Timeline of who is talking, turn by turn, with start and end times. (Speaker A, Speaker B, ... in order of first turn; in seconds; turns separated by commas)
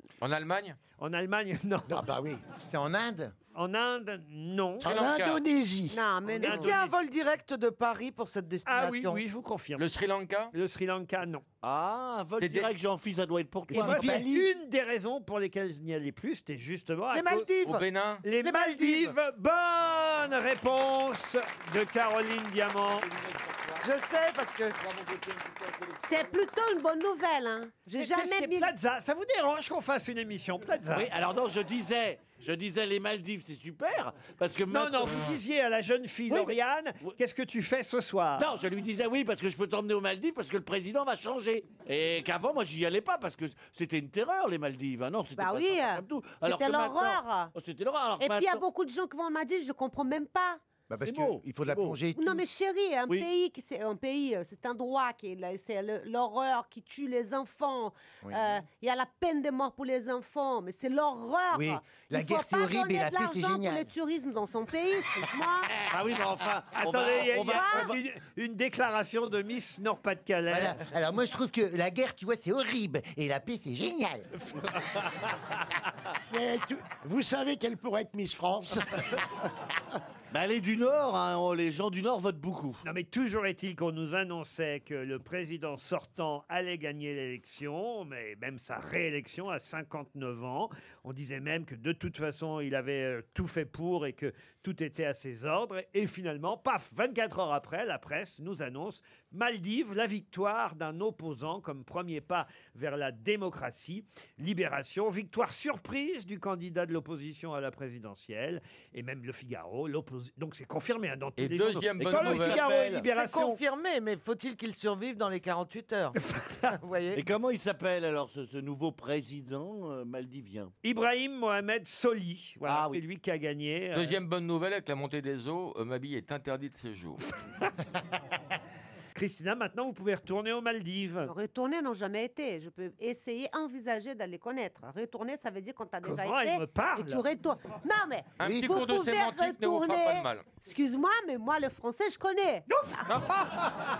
Speaker A: 0.2-0.8, Speaker B: 1.0-2.0, Speaker C: 1.9-2.5, Speaker D: 2.5-3.3, Speaker B: 3.5-4.9, Speaker A: 4.8-5.4, Speaker C: 4.8-6.0, Speaker E: 5.9-6.8, Speaker B: 6.3-7.0, Speaker F: 6.4-9.2, Speaker B: 8.7-9.9, Speaker A: 9.8-10.5, Speaker B: 10.5-11.4, Speaker G: 11.6-14.5, Speaker A: 12.4-12.7, Speaker B: 13.7-17.5, Speaker F: 17.1-17.9, Speaker A: 17.6-18.2, Speaker B: 18.2-23.1, Speaker F: 18.4-19.1, Speaker F: 23.8-24.8, Speaker E: 26.0-28.7, Speaker B: 27.9-31.1, Speaker G: 30.9-35.4, Speaker B: 34.7-38.5, Speaker G: 36.3-37.1, Speaker G: 38.4-48.6, Speaker E: 45.4-47.5, Speaker E: 48.2-50.6, Speaker D: 50.9-52.4, Speaker G: 51.0-52.0, Speaker E: 52.1-65.8, Speaker D: 58.2-58.5, Speaker D: 61.5-63.9, Speaker G: 65.8-67.9, Speaker B: 66.8-70.8, Speaker E: 67.5-67.9, Speaker D: 70.5-74.3, Speaker C: 76.3-79.2, Speaker G: 80.3-82.8, Speaker B: 82.8-113.6, Speaker A: 111.4-112.6, Speaker G: 112.0-113.1, Speaker F: 113.1-116.2, Speaker B: 116.2-116.8, Speaker F: 116.8-117.2, Speaker G: 117.1-120.7, Speaker B: 120.8-124.2, Speaker G: 122.7-123.0, Speaker A: 123.9-127.2, Speaker B: 129.2-131.3, Speaker E: 131.3-142.7, Speaker B: 136.0-137.2, Speaker A: 138.4-140.5, Speaker D: 138.4-138.7